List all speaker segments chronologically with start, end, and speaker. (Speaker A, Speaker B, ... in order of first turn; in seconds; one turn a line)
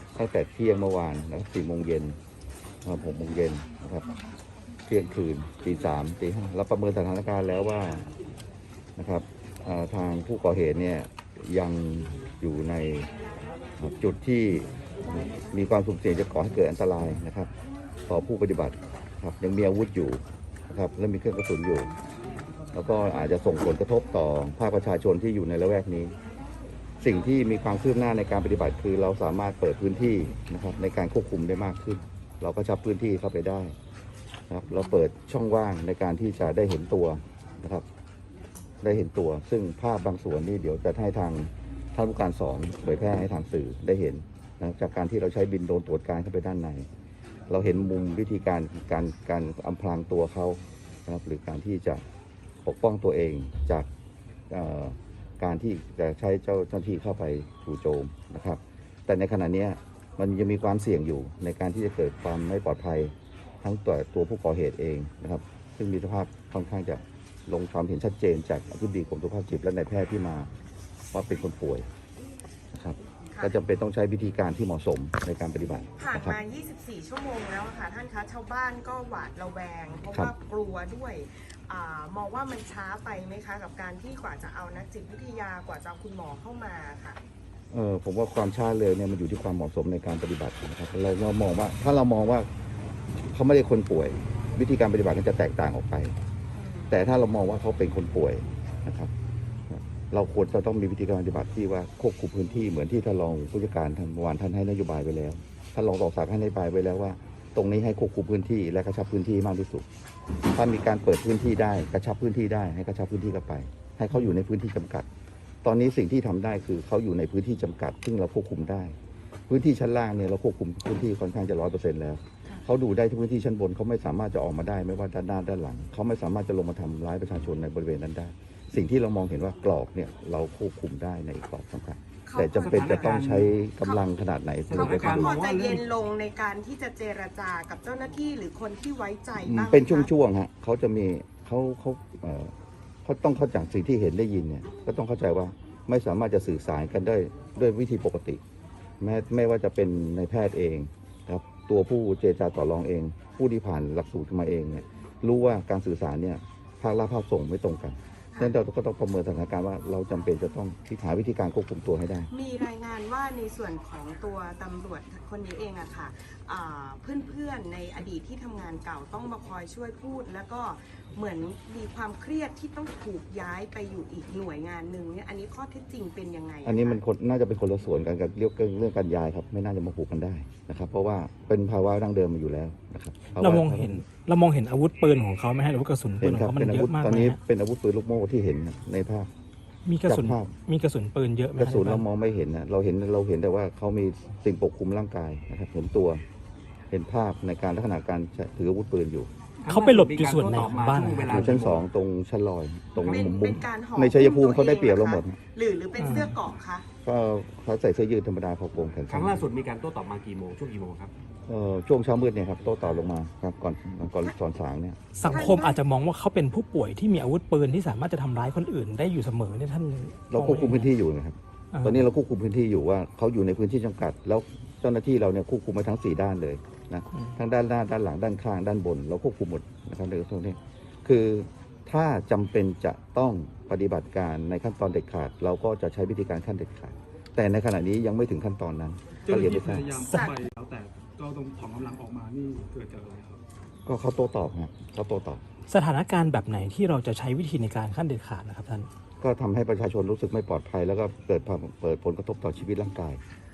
Speaker A: 0.1-2.2
Speaker A: 2.8-4.1
Speaker A: 4.9-8.1
Speaker A: 9.0-13.1
Speaker A: 13.8-17.5
Speaker A: 18.1-21.9
Speaker A: 22.7-26.1
Speaker A: 27.0-33.8
Speaker A: 34.5-37.9
Speaker A: 38.8-46.9
Speaker A: 47.5-52.0
Speaker A: 52.6-53.9
Speaker A: 54.5-70.5
Speaker A: 71.1-71.8
Speaker A: 72.7-76.4
Speaker B: 76.0-87.2
Speaker A: 87.7-92.5
Speaker A: 93.3-96.2
Speaker B: 96.5-96.9
Speaker A: 96.9-99.1
Speaker A: 99.7-109.8
Speaker A: 110.5-115.1
Speaker A: 115.6-119.0
Speaker A: 119.5-135.3
Speaker B: 132.2-133.2
Speaker C: 132.6-133.5
Speaker C: 134.7-135.8
Speaker B: 134.7-140.1
Speaker A: 139.4-142.5
Speaker A: 143.0-148.4
Speaker A: 149.0-162.3
Speaker B: 162.3-177.0
Speaker A: 176.6-184.0
Speaker D: 183.3-187.4
Speaker A: 186.2-189.3
Speaker D: 189.8-192.0
Speaker A: 190.1-190.5
Speaker A: 191.6-196.2
Speaker A: 196.9-199.3
Speaker C: 199.6-201.8
Speaker D: 199.7-201.6
Speaker A: 201.2-205.4
Speaker C: 203.0-203.3
Speaker B: 203.1-206.8
Speaker D: 206.0-206.4
Speaker A: 207.0-209.5
Speaker C: 209.1-211.1
Speaker A: 211.5-215.5
Speaker D: 215.1-220.9
Speaker B: 215.3-215.8
Speaker A: 220.3-239.9
Speaker D: 221.7-222.0
Speaker E: 239.2-243.4
Speaker D: 240.0-240.3
Speaker A: 243.8-245.4
Speaker D: 245.7-248.9
Speaker A: 249.2-253.2